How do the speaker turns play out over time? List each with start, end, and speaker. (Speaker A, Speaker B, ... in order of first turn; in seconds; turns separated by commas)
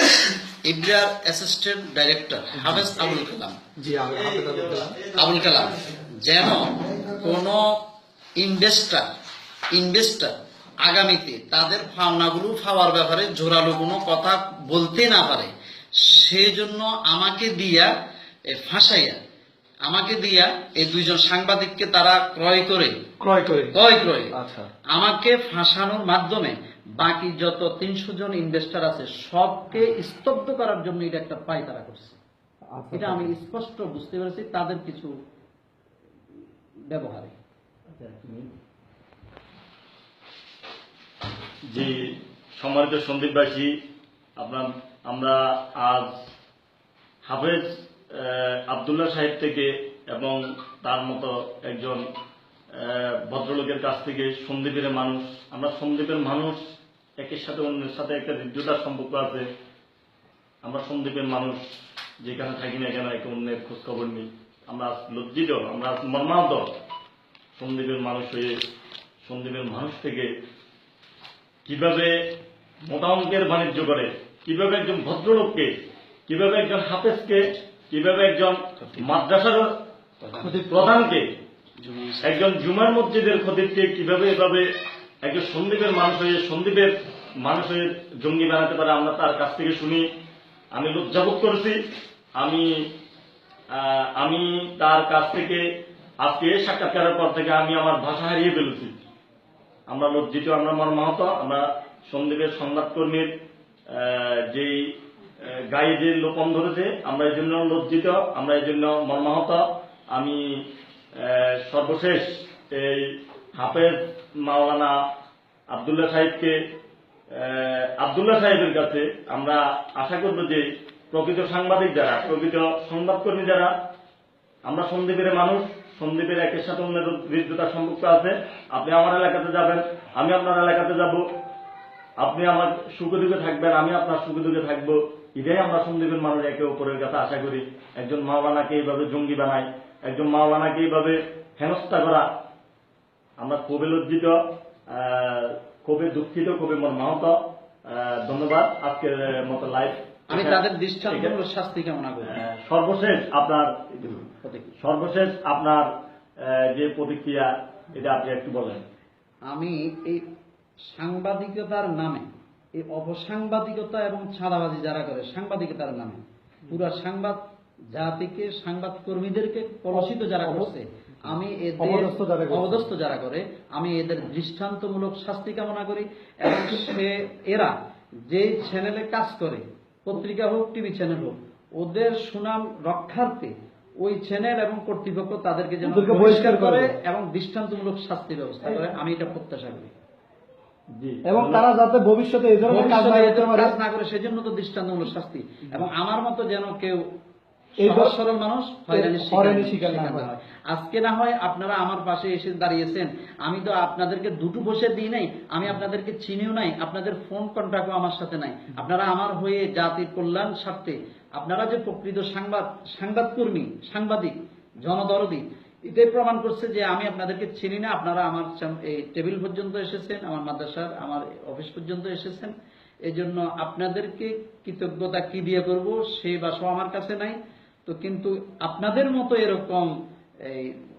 Speaker A: 0.6-3.6, Speaker B: 2.5-3.0, Speaker B: 3.8-5.0, Speaker A: 5.1-7.8, Speaker A: 8.4-9.1, Speaker A: 9.7-10.3, Speaker A: 10.8-17.9, Speaker A: 18.5-19.2, Speaker A: 19.9-22.9, Speaker B: 23.2-23.7, Speaker A: 23.7-24.4, Speaker B: 24.3-24.7, Speaker A: 24.9-32.2, Speaker B: 32.7-33.3, Speaker A: 32.9-35.1, Speaker A: 36.9-37.3, Speaker C: 38.0-38.5, Speaker C: 41.7-43.7, Speaker C: 44.4-46.1, Speaker C: 47.2-52.0, Speaker C: 52.7-56.6, Speaker C: 57.2-59.5, Speaker C: 60.6-61.6, Speaker C: 62.2-66.7, Speaker C: 67.6-68.5, Speaker C: 69.2-70.3, Speaker C: 71.7-72.3, Speaker C: 72.8-75.8, Speaker C: 76.3-79.8, Speaker A: 78.8-79.1, Speaker A: 80.2-80.5, Speaker B: 80.4-81.0, Speaker C: 80.7-81.3, Speaker A: 81.8-82.2, Speaker C: 82.2-84.7, Speaker C: 85.2-90.1, Speaker C: 90.7-91.8, Speaker C: 92.4-92.8, Speaker C: 93.7-95.6, Speaker C: 96.2-99.0, Speaker C: 99.9-103.3, Speaker C: 103.9-104.9, Speaker C: 105.4-110.4, Speaker C: 111.2-115.0, Speaker C: 115.7-116.6, Speaker C: 117.3-123.7, Speaker C: 124.7-131.2, Speaker C: 132.2-142.3, Speaker C: 143.4-144.4, Speaker C: 144.9-147.4, Speaker C: 147.9-151.3, Speaker A: 150.3-152.4, Speaker C: 152.3-154.2, Speaker A: 154.0-154.7, Speaker C: 154.8-155.9, Speaker C: 156.4-158.8, Speaker A: 159.5-160.2, Speaker A: 160.9-167.4, Speaker A: 167.9-177.7, Speaker B: 169.9-170.7, Speaker B: 171.8-172.8, Speaker A: 178.3-183.5, Speaker A: 184.0-189.9, Speaker B: 185.8-186.9, Speaker B: 188.6-188.9, Speaker C: 190.9-191.6, Speaker B: 191.2-193.7, Speaker A: 192.7-197.0, Speaker B: 197.8-198.1, Speaker A: 197.8-222.5, Speaker B: 198.9-200.3, Speaker A: 223.1-230.8